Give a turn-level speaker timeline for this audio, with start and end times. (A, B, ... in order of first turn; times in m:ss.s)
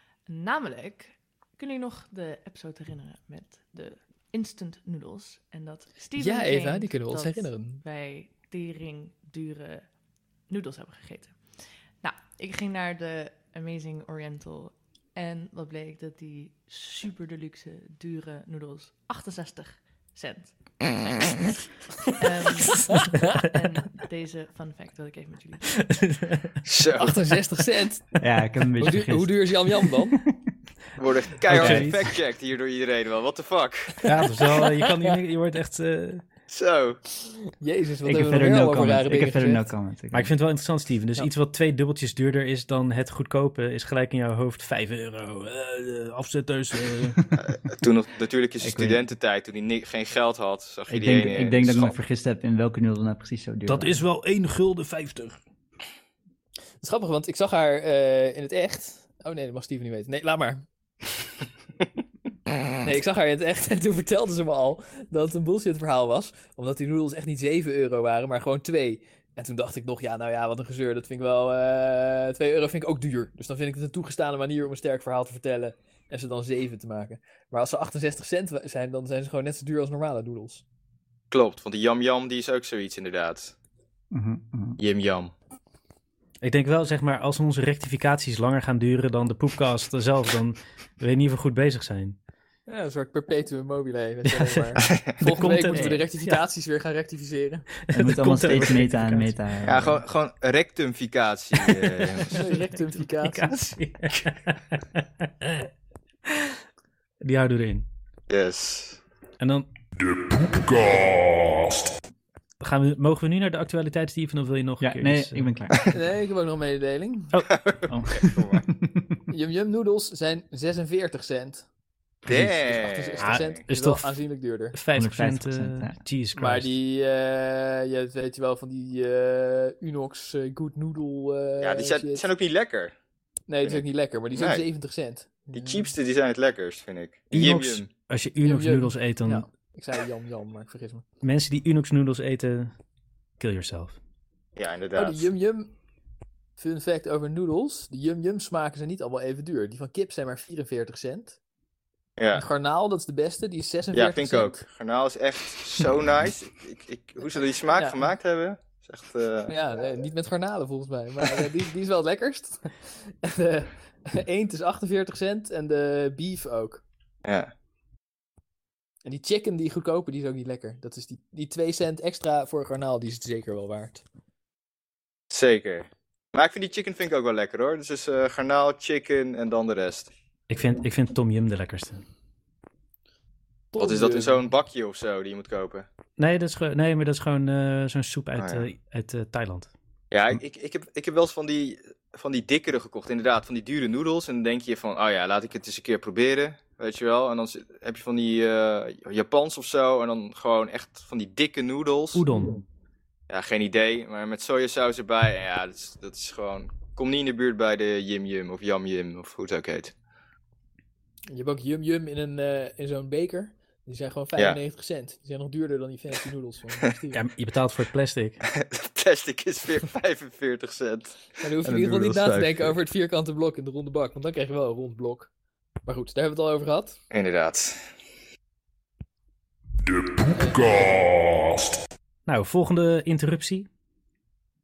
0:00.3-0:09.9 A
0:06.1-0:07.8 B
0:10.5-0:21.1 A
0:22.2-0:26.0 A
0:26.0-0:26.4 C
0:26.6-0:27.3 D
0:27.0-0:28.2 B
0:28.2-0:30.5 E
0:28.8-0:30.2 B
0:31.0-0:34.0 D
0:31.5-0:32.0 C
0:31.5-0:32.1 E
0:34.0-0:36.2 C
0:34.6-0:35.1 B
0:36.5-0:37.0 D
0:37.6-0:39.7 B
0:38.0-0:40.3 E
0:40.1-0:47.2 C
0:47.4-0:52.0 D
0:48.6-0:49.0 E
0:50.9-0:54.0 E
0:53.7-0:55.4 C
0:56.8-1:00.6 B
1:02.8-1:20.6 B
1:21.3-1:23.5 D
1:24.1-1:24.8 E
1:24.8-1:25.3 D
1:26.4-1:32.2 C
1:32.7-1:37.7 B
1:34.8-1:35.1 D
1:35.2-1:36.4 C
1:37.9-1:39.3 C
1:37.9-1:40.0 E
1:39.6-1:42.4 D
1:42.3-1:43.6 B
1:43.2-1:45.7 C
1:47.2-1:47.8 C
1:48.3-1:49.0 D
1:49.4-1:49.7 C
1:52.6-1:55.5 C
1:54.8-1:55.8 E
1:55.9-1:57.3 B
1:57.5-1:58.7 D
1:57.9-1:59.2 E
1:59.3-2:01.6 B
2:02.2-2:03.5 D
2:02.3-2:04.8 B
2:03.2-2:04.2 C
2:04.7-2:06.7 C
2:04.9-2:06.0 E
2:06.3-2:12.2 B
2:11.6-2:12.9 D
2:13.5-2:15.9 B
2:13.6-2:14.6 D
2:15.5-2:17.9 D
2:17.3-2:19.5 C
2:18.4-2:21.0 B
2:21.2-2:22.7 C
2:23.4-2:24.0 C
2:24.6-2:25.3 D
2:24.9-2:25.7 B
2:26.6-2:31.4 B
2:32.2-2:32.4 D
2:32.3-2:34.6 B
2:33.9-2:39.5 D
2:37.8-2:38.1 B
2:39.5-2:46.8 B
2:47.2-2:47.5 D
2:49.0-2:54.0 B
2:55.3-3:00.1 D
3:00.5-3:02.0 C
3:03.7-3:04.4 B
3:03.8-3:05.9 D
3:06.2-3:09.7 C
3:08.4-3:08.6 D
3:10.1-3:22.2 D
3:22.1-3:22.6 C
3:23.3-3:29.9 D
3:31.3-3:37.2 B
3:37.1-3:38.4 C
3:38.5-3:42.8 D
3:41.4-3:45.3 B
3:45.8-3:47.0 B
3:47.1-3:47.8 D
3:50.3-3:51.3 B
3:52.2-3:53.7 C